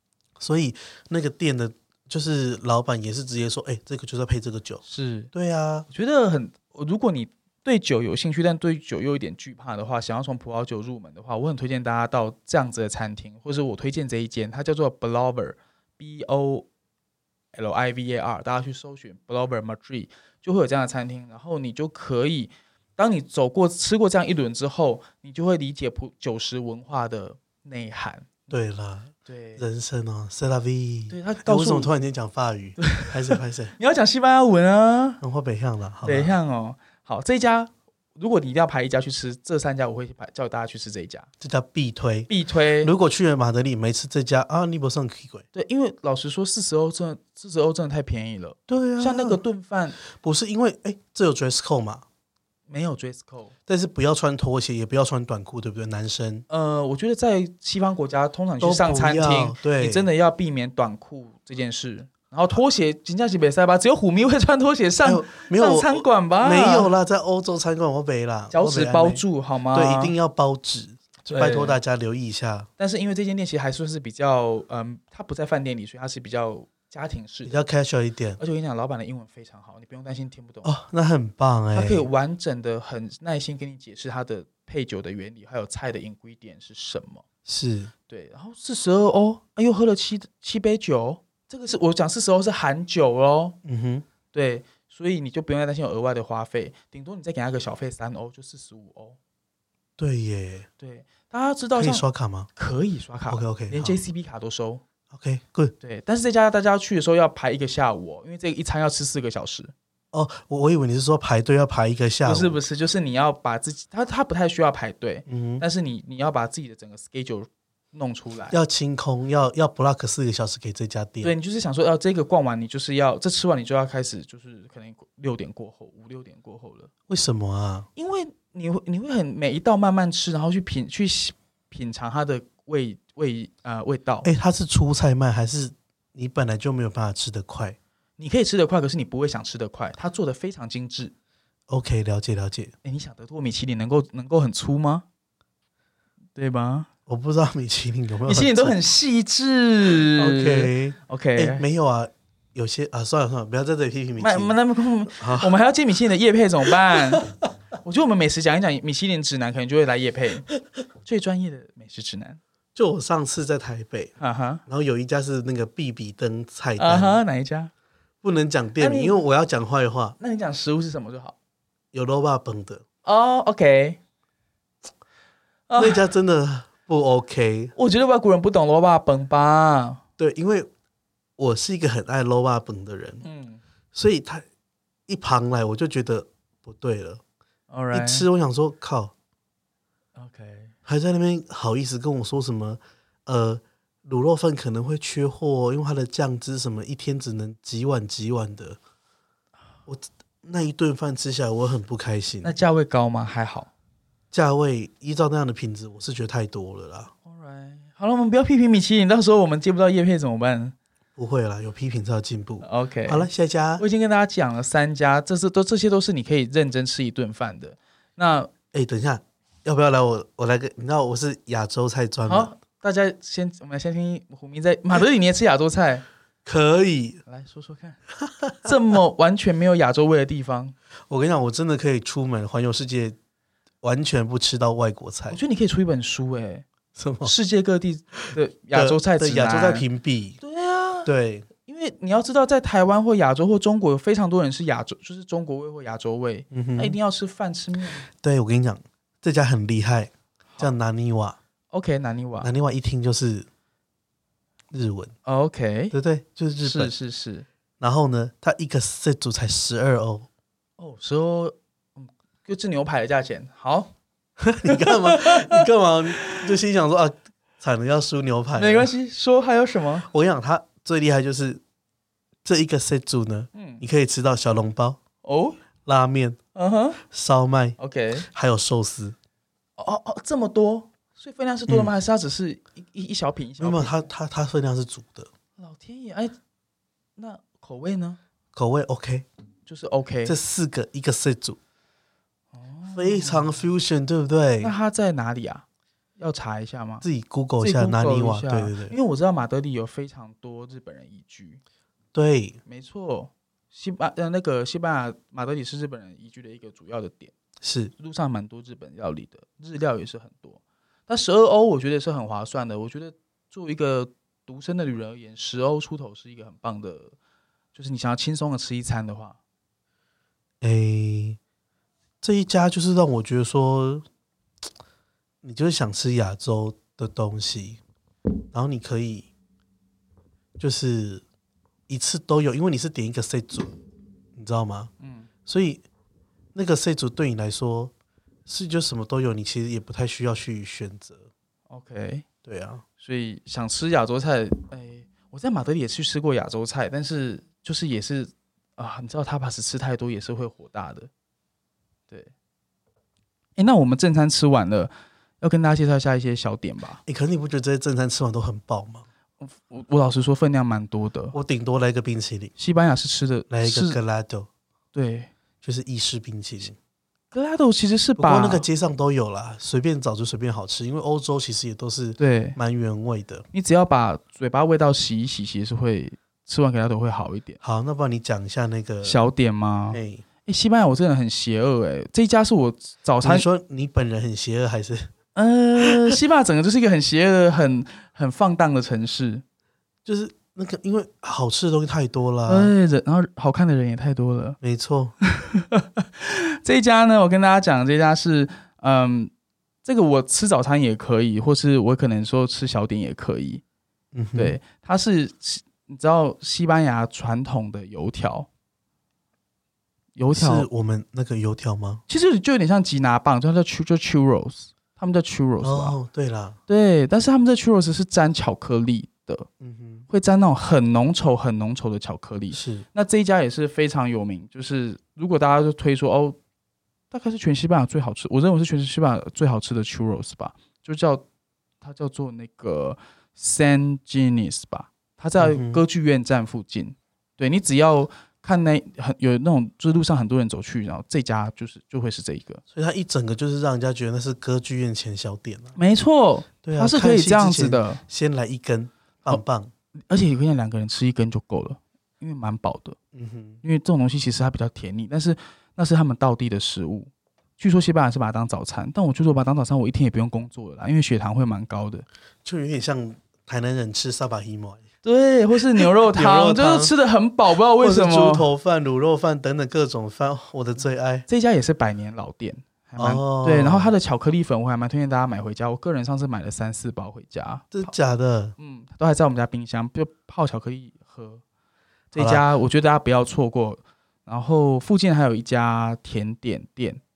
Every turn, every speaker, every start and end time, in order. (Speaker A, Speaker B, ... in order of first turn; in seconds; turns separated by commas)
Speaker A: 0.4-5.9, Speaker B: 4.9-5.3, Speaker B: 5.9-16.7, Speaker B: 17.5-28.5, Speaker A: 28.5-33.8, Speaker B: 29.3-29.6, Speaker B: 31.1-31.9, Speaker B: 32.8-35.2, Speaker A: 35.2-36.4, Speaker B: 36.0-41.3, Speaker A: 41.4-42.3, Speaker B: 42.3-42.9, Speaker A: 42.8-45.5, Speaker B: 45.5-50.0, Speaker A: 48.7-49.4, Speaker A: 50.1-52.0, Speaker B: 52.7-53.5, Speaker A: 53.7-56.5, Speaker B: 56.5-66.9, Speaker A: 58.6-60.1, Speaker A: 65.0-72.7, Speaker B: 68.5-70.1, Speaker B: 71.3-71.8, Speaker B: 72.8-77.6, Speaker A: 77.5-78.4, Speaker B: 78.4-80.7, Speaker A: 80.6-82.1, Speaker B: 81.7-87.2, Speaker A: 87.5-87.9, Speaker B: 88.1-93.6, Speaker A: 93.7-94.0, Speaker B: 94.3-99.2, Speaker A: 100.0-100.7, Speaker B: 100.8-102.0, Speaker A: 101.8-102.5, Speaker B: 102.6-104.8, Speaker A: 103.3-104.0, Speaker A: 105.1-105.7, Speaker B: 105.8-109.7, Speaker A: 110.1-112.6, Speaker B: 112.2-118.6, Speaker A: 115.3-115.6, Speaker A: 118.5-121.3, Speaker B: 121.2-126.9, Speaker A: 127.1-127.9, Speaker B: 128.0-134.3, Speaker A: 134.2-137.8, Speaker B: 138.2-141.1, Speaker A: 141.7-142.7, Speaker B: 142.8-145.1, Speaker B: 146.3-146.9, Speaker A: 147.1-148.8, Speaker B: 148.3-151.6, Speaker A: 150.1-154.6, Speaker B: 154.2-157.3, Speaker A: 155.2-155.5, Speaker B: 157.8-160.5, Speaker B: 161.0-162.4, Speaker A: 162.8-164.1, Speaker B: 164.2-164.6, Speaker A: 164.7-167.2, Speaker B: 166.8-167.7, Speaker A: 168.2-170.2, Speaker B: 168.8-169.2, Speaker B: 170.2-171.3, Speaker A: 171.9-172.8, Speaker B: 173.1-174.0, Speaker B: 175.7-176.1, Speaker A: 175.8-177.7, Speaker B: 177.8-180.0, Speaker A: 180.2-180.7, Speaker A: 181.4-183.2, Speaker B: 183.2-183.6, Speaker A: 183.9-184.4, Speaker A: 185.1-187.2, Speaker B: 187.7-188.3, Speaker A: 187.9-189.1, Speaker B: 190.2-190.7, Speaker A: 190.9-198.8, Speaker A: 199.9-202.5, Speaker B: 202.4-203.7, Speaker A: 204.3-207.1, Speaker B: 207.2-210.8, Speaker A: 211.2-213.8, Speaker B: 212.6-218.5, Speaker A: 218.7-222.5, Speaker B: 222.3-226.1, Speaker A: 226.4-227.2, Speaker B: 227.3-228.0, Speaker A: 228.2-228.7, Speaker B: 228.6-230.8, Speaker A: 231.1-233.2, Speaker A: 233.8-235.4, Speaker B: 235.3-236.7, Speaker A: 237.0-237.3, Speaker B: 237.2-239.8, Speaker A: 238.7-240.4, Speaker B: 240.4-241.1, Speaker A: 241.1-241.5, Speaker B: 241.6-248.1, Speaker A: 246.5-247.0, Speaker A: 248.1-251.4, Speaker B: 251.7-252.5, Speaker A: 252.4-253.5, Speaker A: 254.7-255.1, Speaker B: 255.2-255.9, Speaker A: 255.9-256.9, Speaker B: 256.6-257.5, Speaker A: 257.8-260.3, Speaker B: 260.8-263.9, Speaker A: 264.4-268.9, Speaker B: 264.6-266.5, Speaker B: 268.6-270.1, Speaker A: 270.1-271.6, Speaker A: 272.4-275.0, Speaker B: 273.5-273.8, Speaker B: 275.2-275.6, Speaker A: 275.9-276.4, Speaker B: 276.6-277.0, Speaker A: 277.1-279.2, Speaker B: 277.8-278.3, Speaker B: 279.8-284.1, Speaker A: 283.6-285.3, Speaker B: 285.6-286.4, Speaker B: 287.2-288.2, Speaker A: 288.6-289.3, Speaker B: 289.7-290.4, Speaker A: 290.3-291.6, Speaker B: 292.5-293.7, Speaker A: 292.9-294.7, Speaker B: 294.6-295.6, Speaker B: 296.2-297.1, Speaker A: 297.0-299.0, Speaker B: 297.6-301.6, Speaker A: 302.1-302.6, Speaker B: 302.7-307.3, Speaker A: 307.6-307.9, Speaker B: 308.0-317.1, Speaker B: 317.7-319.4, Speaker A: 320.6-321.4, Speaker A: 322.2-324.1, Speaker A: 325.4-327.8, Speaker A: 328.5-329.3, Speaker A: 330.6-331.2, Speaker A: 331.9-333.7, Speaker A: 334.4-334.9, Speaker B: 335.0-335.3, Speaker A: 335.5-335.9, Speaker A: 336.5-337.9, Speaker A: 338.5-341.3, Speaker B: 341.7-342.2, Speaker A: 342.4-342.8, Speaker B: 343.0-351.1, Speaker B: 353.6-357.0, Speaker A: 357.1-359.1, Speaker B: 359.4-361.4, Speaker A: 361.3-362.5, Speaker B: 362.6-364.0, Speaker A: 363.5-364.5, Speaker B: 364.9-365.3, Speaker A: 365.6-366.8, Speaker B: 367.3-368.7, Speaker A: 368.2-373.5, Speaker B: 372.2-372.6, Speaker B: 373.5-377.6, Speaker A: 377.6-379.2, Speaker B: 379.0-383.5, Speaker A: 379.9-380.2, Speaker A: 383.2-385.1, Speaker B: 385.4-389.4, Speaker A: 385.8-386.2, Speaker A: 390.1-392.7, Speaker B: 392.5-394.6, Speaker A: 394.6-395.1, Speaker B: 395.2-399.3, Speaker B: 399.8-403.6, Speaker A: 404.1-404.6, Speaker B: 404.4-408.5, Speaker B: 410.2-410.7, Speaker A: 410.3-412.0, Speaker B: 412.1-416.0, Speaker A: 415.6-416.6, Speaker B: 416.7-419.5, Speaker A: 419.6-420.1, Speaker B: 420.1-426.4, Speaker A: 422.5-422.9, Speaker B: 427.1-431.2, Speaker B: 431.8-442.6, Speaker A: 435.4-435.8, Speaker A: 442.7-445.8, Speaker B: 445.8-448.0, Speaker A: 446.6-449.7, Speaker B: 450.1-453.0, Speaker A: 453.1-453.6, Speaker B: 453.6-462.1, Speaker A: 462.4-464.8, Speaker B: 465.0-468.5, Speaker A: 465.8-466.9, Speaker A: 467.8-471.3, Speaker B: 471.3-477.9, Speaker A: 473.0-473.9, Speaker A: 477.7-478.6, Speaker B: 478.6-481.4, Speaker B: 482.1-487.0, Speaker A: 482.1-482.4